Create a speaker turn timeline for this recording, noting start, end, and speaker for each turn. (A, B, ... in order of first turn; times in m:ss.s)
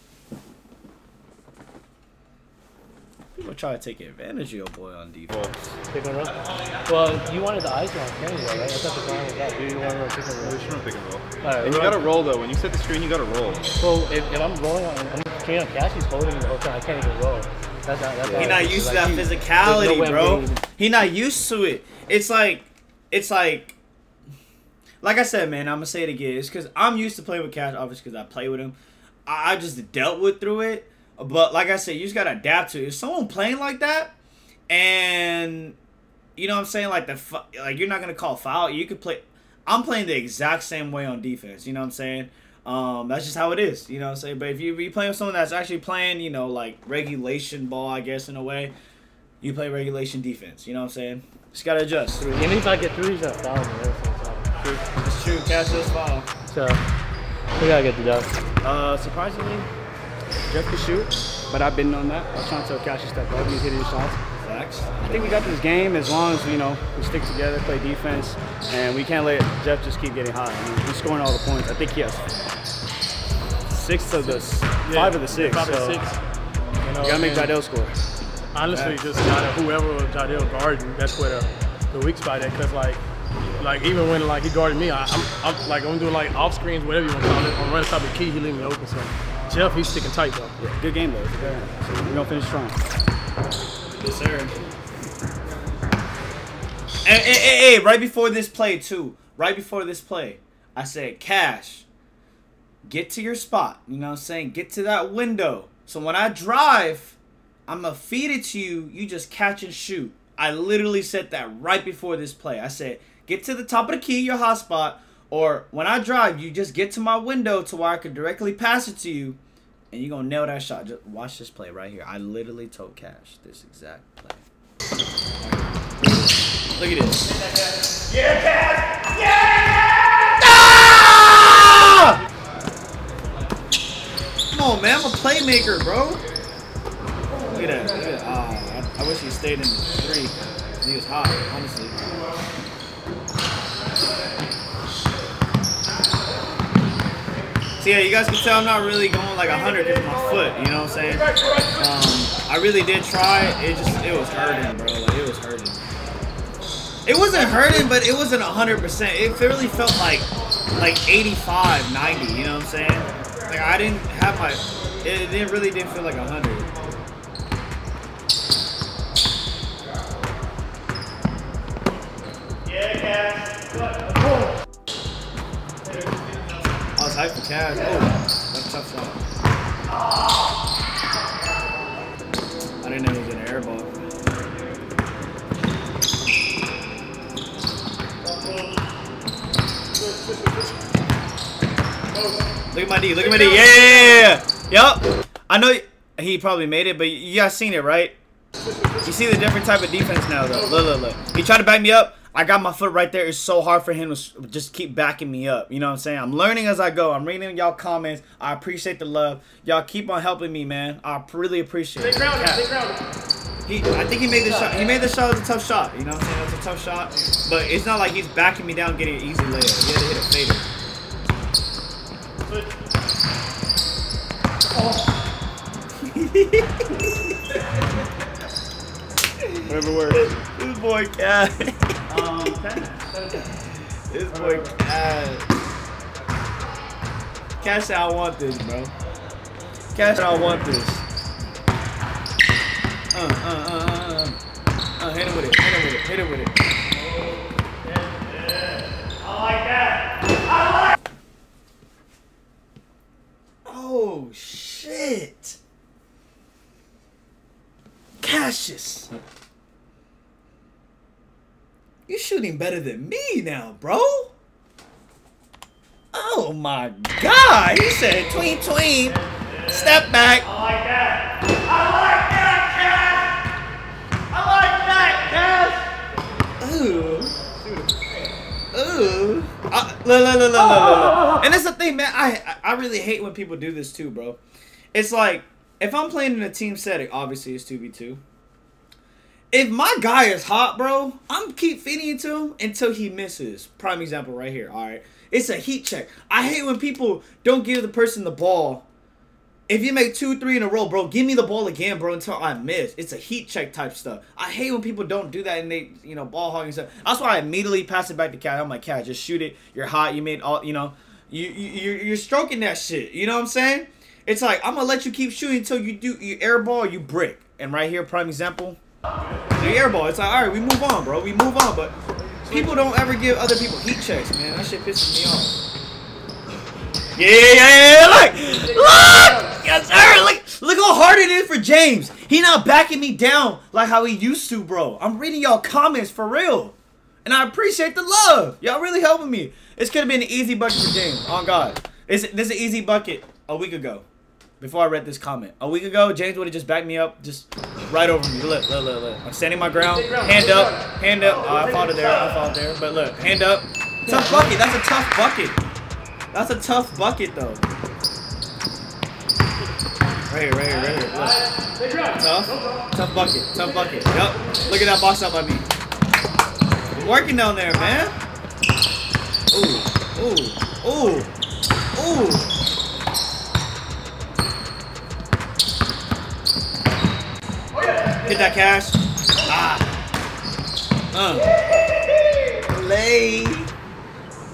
0:03.4-0:05.7 A
0:05.3-0:05.6 B
0:05.9-0:06.4 C
0:06.9-0:10.6 C
0:10.4-0:13.7 B
0:11.4-0:12.0 C
0:13.8-0:20.6 C
0:18.3-0:23.8 A
0:25.0-0:34.2 A
0:34.7-0:35.8 A
0:36.4-0:48.7 A
0:49.4-0:52.2 A
0:52.2-0:54.5 C
0:54.6-0:56.3 A
0:56.5-0:56.8 C
0:57.6-0:58.4 C
0:58.6-0:59.6 A
1:00.5-1:04.2 D
1:04.4-1:05.5 A
1:05.0-1:12.3 D
1:13.7-1:16.0 D
1:14.2-1:16.2 E
1:16.8-1:17.6 E
1:17.0-1:18.0 D
1:18.5-1:23.0 E
1:18.7-1:19.0 A
1:23.6-1:30.6 E
1:30.6-1:32.8 D
1:34.0-1:34.6 A
1:37.0-1:41.9 A
1:42.8-1:59.4 A
1:59.9-2:04.4 A
2:05.4-2:07.3 A
2:09.4-2:12.2 A
2:14.5-2:16.2 A
2:17.4-2:22.0 A
2:27.8-2:35.8 A
2:37.0-2:46.7 A
2:57.0-2:59.2 A
3:02.8-3:03.9 A
3:12.7-3:18.2 A
3:19.0-3:32.7 A
3:32.0-3:33.0 E
3:33.7-3:40.7 A
3:46.0-3:47.1 A
3:49.4-3:52.8 A
3:49.7-3:50.3 D
3:54.1-3:55.5 A
3:57.6-3:58.9 A
4:00.0-4:01.1 A
4:03.1-4:04.4 A
4:05.0-4:06.6 A
4:13.6-4:15.6 A
4:18.2-4:19.1 A
4:22.1-4:24.3 A
4:26.1-4:30.5 A
4:31.8-4:33.3 A
4:34.3-4:35.9 A
4:36.6-4:37.4 A
4:38.7-4:44.4 A
4:44.9-4:48.2 A
4:49.5-4:58.9 A
4:59.7-5:18.8 A
5:19.6-5:25.6 A
5:27.2-5:44.1 A
5:44.6-5:55.6 A
5:56.3-5:57.6 A
6:00.3-6:01.4 A
6:02.2-6:05.7 A
6:06.9-6:08.1 A
6:09.5-6:11.3 A
6:12.0-6:12.5 A
6:18.2-6:19.9 A
6:21.1-6:21.6 A
6:22.6-6:23.7 A